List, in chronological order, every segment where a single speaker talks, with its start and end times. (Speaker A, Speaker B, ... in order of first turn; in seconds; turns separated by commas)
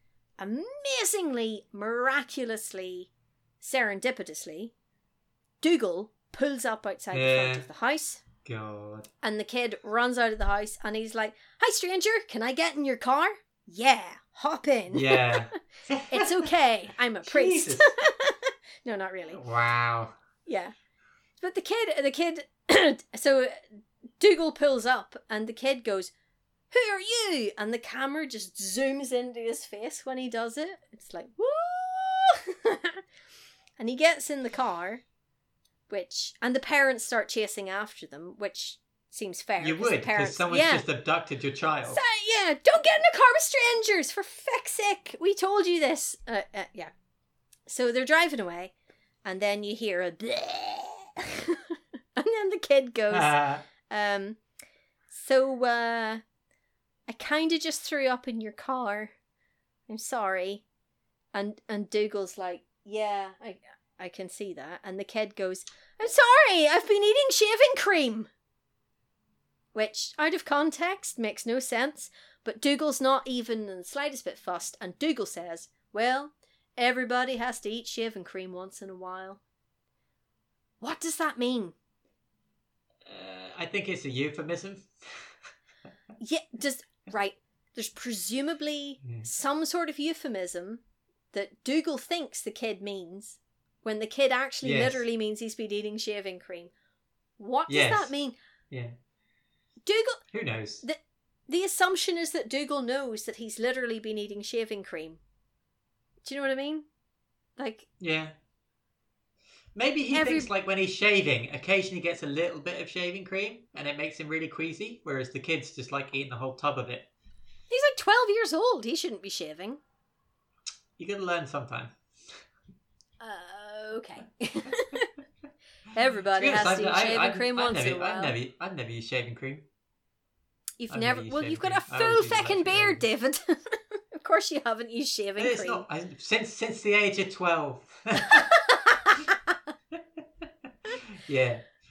Speaker A: 0.4-4.7, Speaker A: 5.6-8.2, Speaker B: 7.1-7.7, Speaker B: 8.4-9.1, Speaker A: 9.2-15.5, Speaker B: 14.9-16.5, Speaker A: 16.1-19.4, Speaker B: 17.2-17.9, Speaker B: 19.3-20.2, Speaker A: 20.5-20.7, Speaker A: 21.4-26.1, Speaker A: 26.7-33.0, Speaker A: 33.8-35.0, Speaker A: 35.9-40.9, Speaker B: 39.6-42.0, Speaker A: 41.9-46.9, Speaker A: 47.7-48.7, Speaker A: 49.2-54.4, Speaker B: 53.1-53.7, Speaker A: 55.1-56.2, Speaker A: 57.1-59.1, Speaker A: 59.9-60.6, Speaker A: 61.3-68.3, Speaker A: 69.7-79.4, Speaker A: 80.8-81.8, Speaker B: 83.1-85.3, Speaker A: 86.2-90.8, Speaker A: 91.3-96.7, Speaker B: 94.6-95.0, Speaker A: 97.4-98.3, Speaker B: 97.7-98.1, Speaker A: 99.9-100.2, Speaker B: 100.3-100.8, Speaker A: 100.8-105.2, Speaker A: 106.2-106.9, Speaker A: 107.6-107.9, Speaker B: 108.0-108.3, Speaker B: 109.8-117.1, Speaker A: 110.1-110.5, Speaker A: 117.7-119.8, Speaker B: 121.0-122.4, Speaker A: 123.2-125.1, Speaker A: 125.9-128.3, Speaker B: 126.4-129.7, Speaker A: 130.8-135.9, Speaker B: 130.9-133.1, Speaker B: 135.4-138.6, Speaker A: 138.2-139.3, Speaker B: 139.9-141.7